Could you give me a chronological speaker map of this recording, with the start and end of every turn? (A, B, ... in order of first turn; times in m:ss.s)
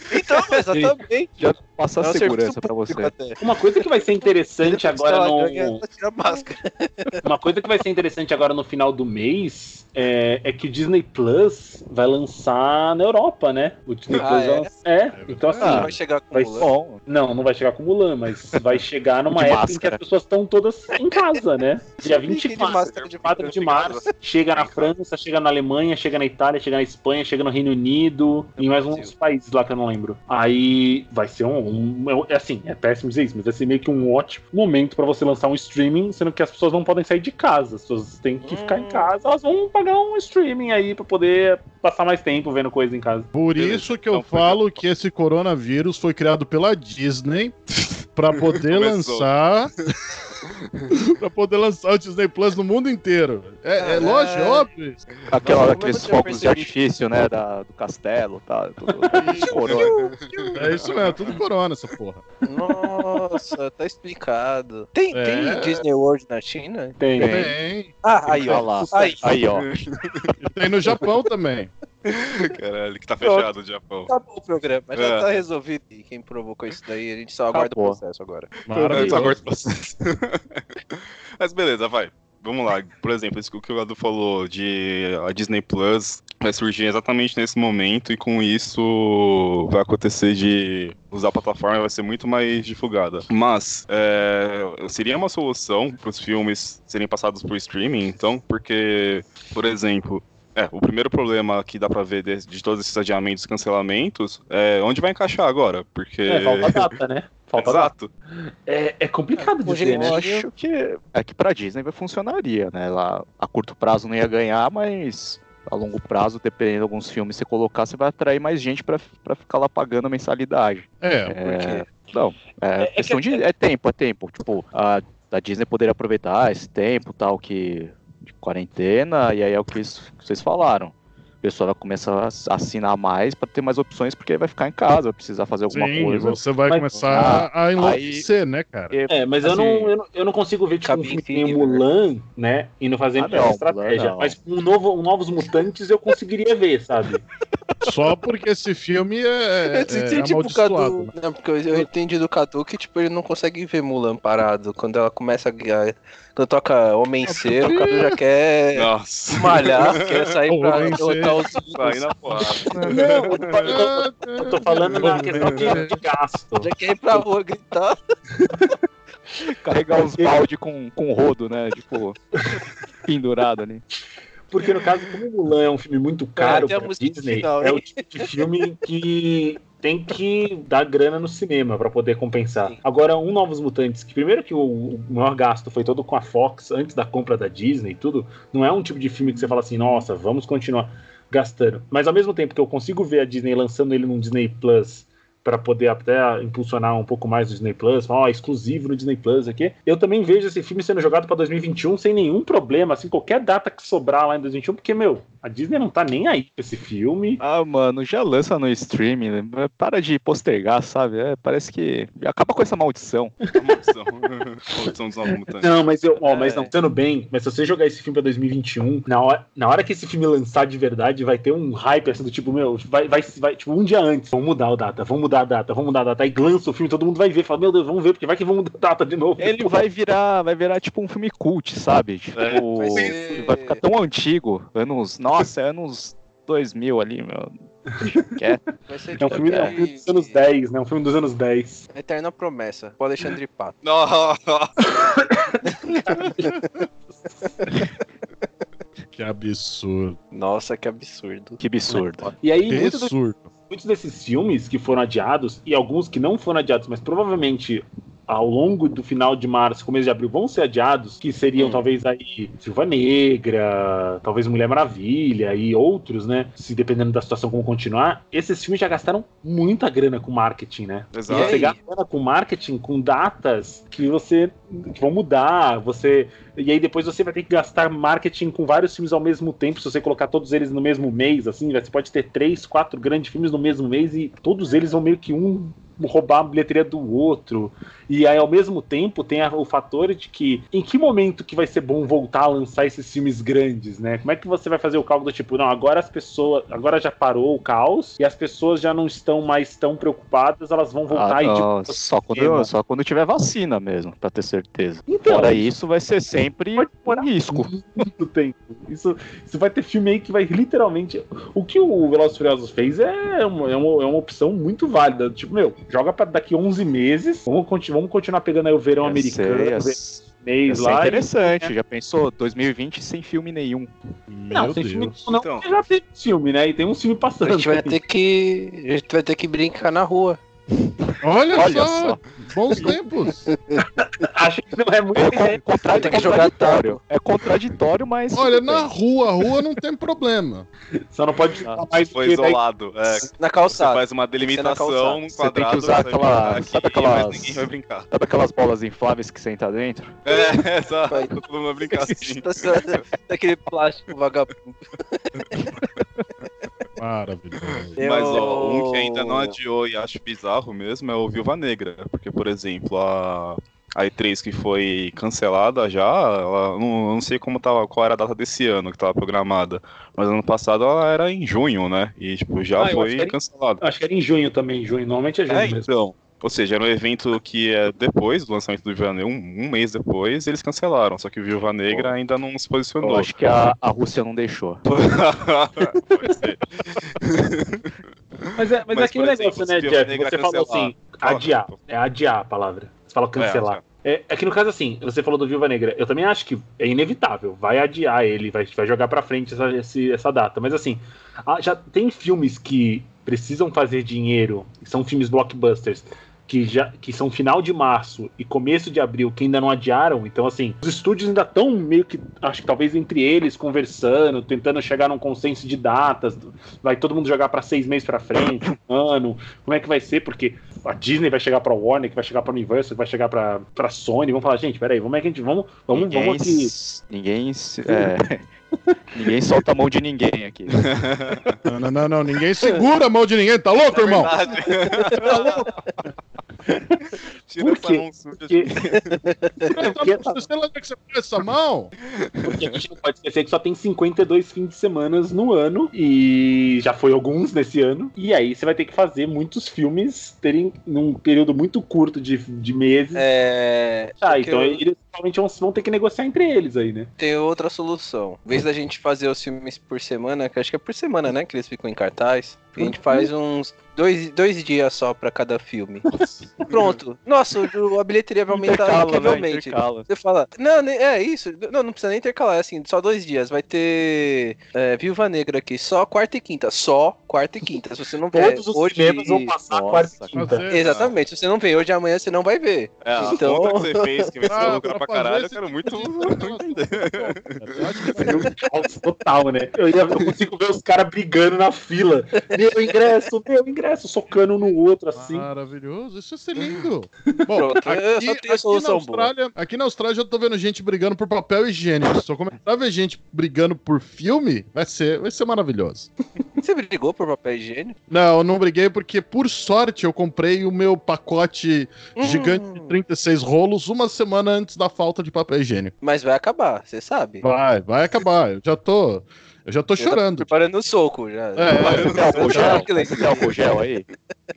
0:00.1-0:01.3 A
0:00.7-0:03.2 B
0:02.0-0:03.4 A
0:03.4-0:05.8 C
0:04.6-0:07.2 A
0:07.2-0:43.3 C
0:14.1-0:14.7 A
0:15.1-0:16.0 D
0:15.6-0:16.7 A
0:15.6-0:15.9 B
0:16.6-0:17.0 B
0:18.5-0:18.8 B
0:19.3-0:20.0 B
0:22.0-0:24.1 A
0:22.6-0:24.9 E
0:28.6-0:29.1 A
0:38.4-0:39.1 A
0:43.3-0:47.6 D
0:43.6-0:44.7 E
0:47.7-0:49.3 E
0:48.2-0:49.7 D
0:50.9-0:55.0 D
0:53.8-0:54.7 A
0:55.3-1:00.0 B
0:55.4-0:56.8 A
0:59.2-0:59.5 C
0:59.2-0:59.5 D
0:59.5-1:01.2 E
0:59.7-1:00.6 A
1:00.6-1:02.2 D
1:02.4-1:07.0 A
1:05.1-1:05.8 D
1:07.0-1:07.5 C
1:07.2-1:07.5 B
1:07.2-1:08.0 D
1:08.0-1:09.2 A
1:08.3-1:09.4 C
1:08.5-1:09.7 B
1:09.5-1:10.3 E
1:10.4-1:11.7 D
1:12.0-1:14.1 E
1:13.2-1:13.5 A
1:14.1-1:18.5 A
1:15.0-1:15.4 E
1:17.5-1:18.0 B
1:18.7-1:19.4 D
1:18.9-1:19.2 C
1:18.9-1:46.9 E
1:46.3-1:47.9 C
1:47.6-1:48.1 E
1:48.7-1:50.2 C
1:49.4-1:50.5 A
1:49.8-2:16.5 B
2:01.0-2:01.4 D
2:01.4-2:01.8 A
2:02.8-2:03.4 C
2:15.7-2:18.9 D
2:16.7-2:17.1 C
2:17.1-2:18.3 B
2:18.9-2:19.9 B
2:19.1-2:27.2 C
2:20.8-2:21.8 A
2:23.2-2:24.4 B
2:27.8-2:31.1 D
2:29.7-2:42.7 A
2:37.3-2:38.2 D
2:38.8-2:40.1 E
2:40.5-2:41.4 D
2:41.8-2:43.8 E
2:42.8-2:46.0 D
2:42.8-2:47.2 C
2:45.1-2:45.8 E
2:46.6-2:48.0 A
2:48.4-2:48.8 C
2:49.4-2:52.2 B
2:53.0-2:53.8 B
2:54.5-3:27.4 C
2:56.4-2:58.3 A
3:27.4-3:33.4 B
3:33.5-3:35.7 E
3:35.6-3:49.8 C
3:36.2-3:36.7 A
3:49.4-3:58.6 B
3:52.4-3:53.1 E
3:52.8-3:53.8 A
3:58.1-3:58.6 C
3:58.9-4:00.5 A
3:59.2-4:01.8 C
3:59.3-3:59.8 B
4:01.9-4:03.8 A
4:03.8-4:04.8 E
4:05.3-4:06.4 C
4:06.1-4:06.6 D
4:06.4-4:06.6 A
4:09.1-4:10.2 D
4:10.3-4:12.1 A
4:11.6-4:12.4 B
4:12.4-4:13.1 C
4:12.7-4:13.5 D
4:13.7-5:02.7 C
4:21.6-4:21.8 A
4:31.1-4:31.7 E
4:31.3-4:31.8 A
5:01.1-5:07.7 B
5:05.1-5:05.7 C
5:06.8-5:21.7 C
5:19.0-5:23.9 B
5:24.3-5:25.2 D
5:24.5-5:28.0 C
5:25.3-5:25.8 E
5:27.4-5:30.4 A
5:31.2-5:33.5 D
5:31.5-5:32.2 B
5:33.5-5:33.9 A
5:33.8-5:36.5 C
5:35.1-5:38.9 B
5:35.9-5:37.0 A
5:38.3-5:40.7 D
5:41.1-5:42.6 C
5:42.0-5:48.1 E
5:43.4-5:45.2 A
5:45.4-5:50.2 B
5:50.3-5:53.0 E
5:50.3-5:50.5 A
5:51.1-5:51.4 A
5:51.9-5:55.7 A
5:57.0-5:58.0 D
5:57.6-6:13.8 E
5:58.0-5:59.6 A
6:12.8-6:15.9 C
6:15.5-6:23.4 E
6:23.0-6:24.8 B
6:24.9-6:31.8 E
6:28.6-7:06.7 C
6:33.4-6:33.8 E
7:05.9-7:08.5 B
7:08.9-7:09.3 C
7:09.2-7:10.9 B
7:10.7-7:11.6 E
7:11.7-7:14.3 D
7:13.9-7:15.7 E
7:14.9-7:15.3 A
7:15.1-7:15.8 C
7:17.5-7:19.2 E
7:17.6-7:18.7 C
7:18.9-7:19.7 A
7:19.7-7:21.9 D
7:19.8-7:20.4 C
7:22.0-7:22.8 E
7:22.4-7:33.3 C
7:33.2-7:34.8 A
7:34.2-7:37.1 C
7:37.2-7:46.0 A
7:42.8-7:43.3 C
7:46.1-7:46.9 E
7:46.7-7:59.5 A
7:48.5-7:50.1 B
7:58.3-8:00.7 C
7:59.7-8:00.4 B
8:00.3-8:00.8 D
8:00.7-8:04.3 A
8:00.8-8:01.2 E
8:03.0-8:07.9 E
8:04.5-8:08.5 D
8:08.2-8:15.5 C
8:15.2-8:26.1 D
8:17.5-8:19.3 A
8:26.6-8:28.0 A
8:28.1-8:35.9 D
8:32.2-8:33.0 A
8:36.0-8:37.4 A
8:37.4-8:40.5 D
8:40.0-8:43.8 A
8:41.6-8:42.9 D
8:41.8-8:44.1 B
8:41.9-8:42.3 E